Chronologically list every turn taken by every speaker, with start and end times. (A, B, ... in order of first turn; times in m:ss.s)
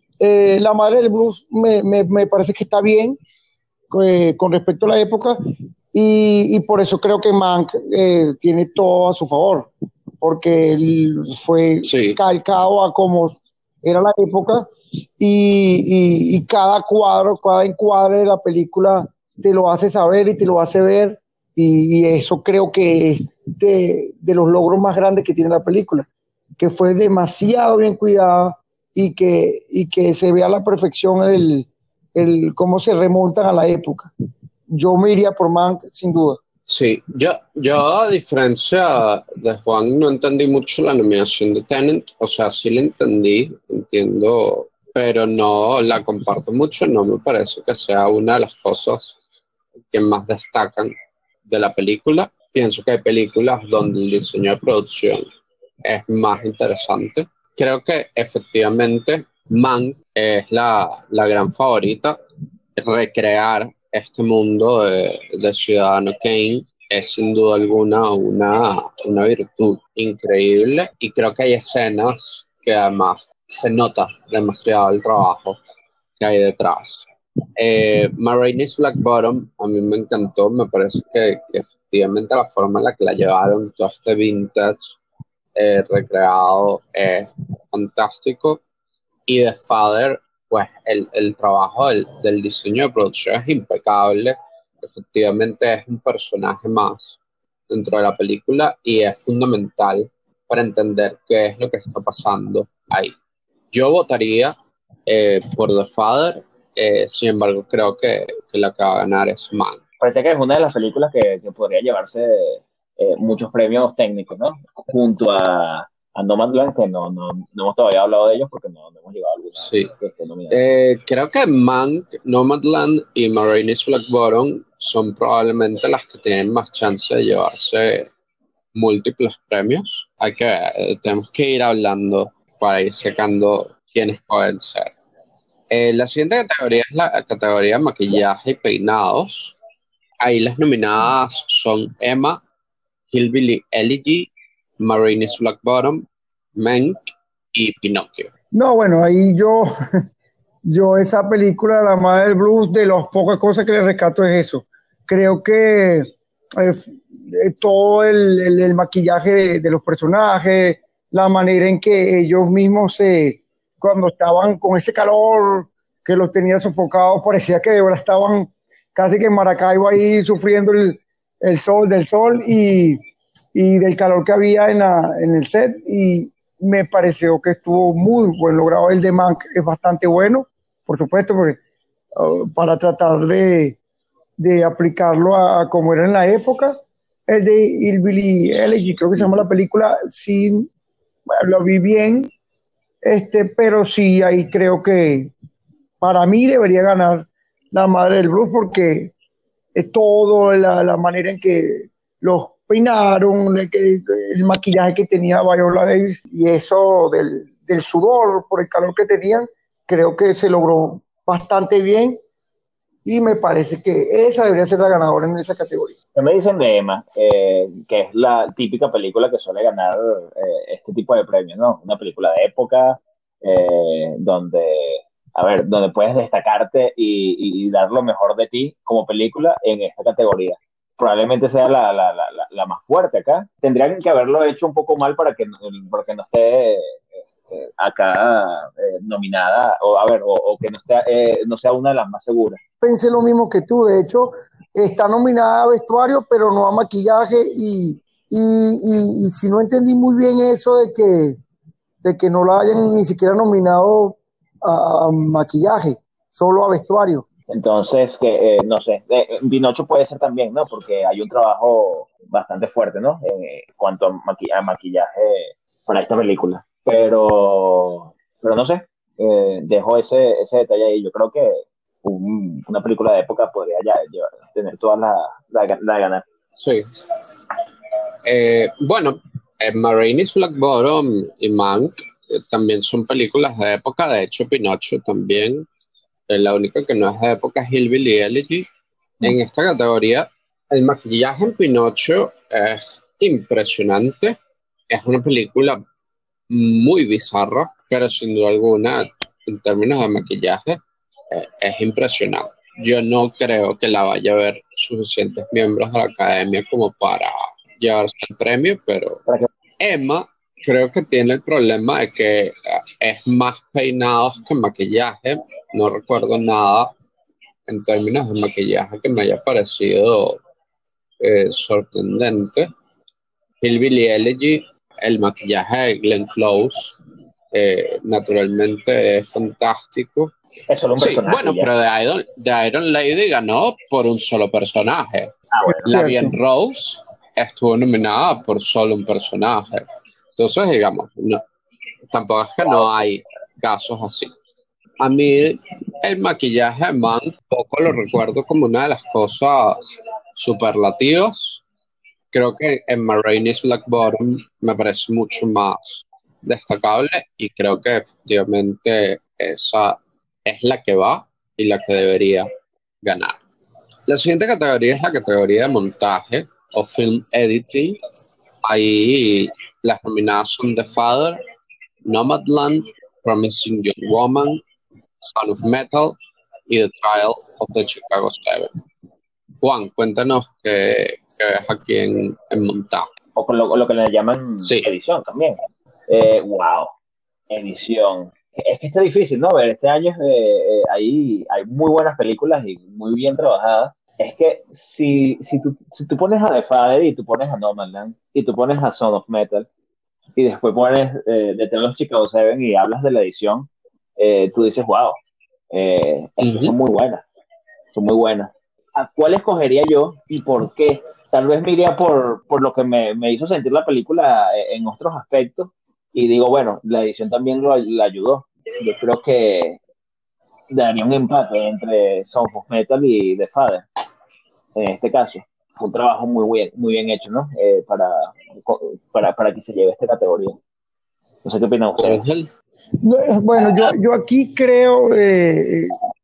0:00.2-0:03.2 A
0:03.9-0:05.4 A
0:05.9-0:09.7 A
0:10.2-0:14.6 A
0:11.8-0:12.2 B
0:15.2-0:26.1 A
0:26.6-0:34.1 A
0:34.7-0:36.4 A
0:36.7-0:49.2 B
0:49.9-0:50.9 B
0:51.5-0:55.2 B
0:55.8-1:02.2 B
1:02.8-1:15.6 B
1:16.2-1:17.0 B
1:17.6-1:25.0 B
1:25.6-1:28.6 B
1:29.3-1:37.2 B
1:37.7-1:43.1 B
1:43.7-1:44.5 B
1:45.1-1:49.8 B
1:50.0-2:00.6 C
1:59.6-1:59.9 B
2:00.5-2:08.1 B
2:08.7-2:14.9 B
2:15.7-2:19.5 B
2:20.2-2:22.4 B
2:23.1-2:28.3 B
2:28.5-2:29.6 A
2:30.7-2:53.0 A
2:53.5-3:01.6 A
3:02.2-3:03.8 A
3:04.4-3:06.8 A
3:07.3-3:10.7 A
3:11.4-3:12.3 A
3:13.0-3:15.3 A
3:16.0-3:19.1 A
3:19.7-3:32.2 A
3:33.0-3:35.9 A
3:36.1-4:02.6 C
4:02.8-4:11.4 A
4:12.0-4:17.2 A
4:17.5-4:36.2 C
4:36.6-4:36.9 B
4:38.2-4:45.6 B
4:46.3-4:48.6 B
4:49.2-4:54.4 B
4:54.9-4:55.8 B
4:56.5-5:00.8 B
5:01.3-5:09.2 B
5:09.8-5:16.9 B
5:17.7-5:20.4 B
5:21.2-5:22.7 B
5:23.6-5:27.0 B
5:27.5-5:30.3 B
5:30.7-5:31.7 C
5:31.0-5:35.3 B
5:35.5-5:36.0 C
5:35.6-5:36.3 A
5:35.9-5:39.8 B
5:40.4-5:41.4 B
5:42.1-5:44.3 B
5:45.0-5:49.8 B
5:50.4-5:51.6 B
5:52.3-6:02.5 B
6:03.0-6:03.4 B
6:04.1-6:08.0 B
6:08.6-6:11.4 B
6:12.1-6:14.6 B
6:15.2-6:16.1 B
6:16.7-6:18.7 B
6:19.6-6:23.1 B
6:23.4-6:26.9 C
6:24.6-6:24.9 B
6:27.5-6:39.7 C
6:40.4-6:47.2 C
6:46.4-6:46.7 B
6:47.9-6:59.8 C
7:00.7-7:03.8 C
7:04.7-7:10.6 C
7:11.4-7:12.2 C
7:12.0-7:12.5 B
7:13.0-7:16.0 A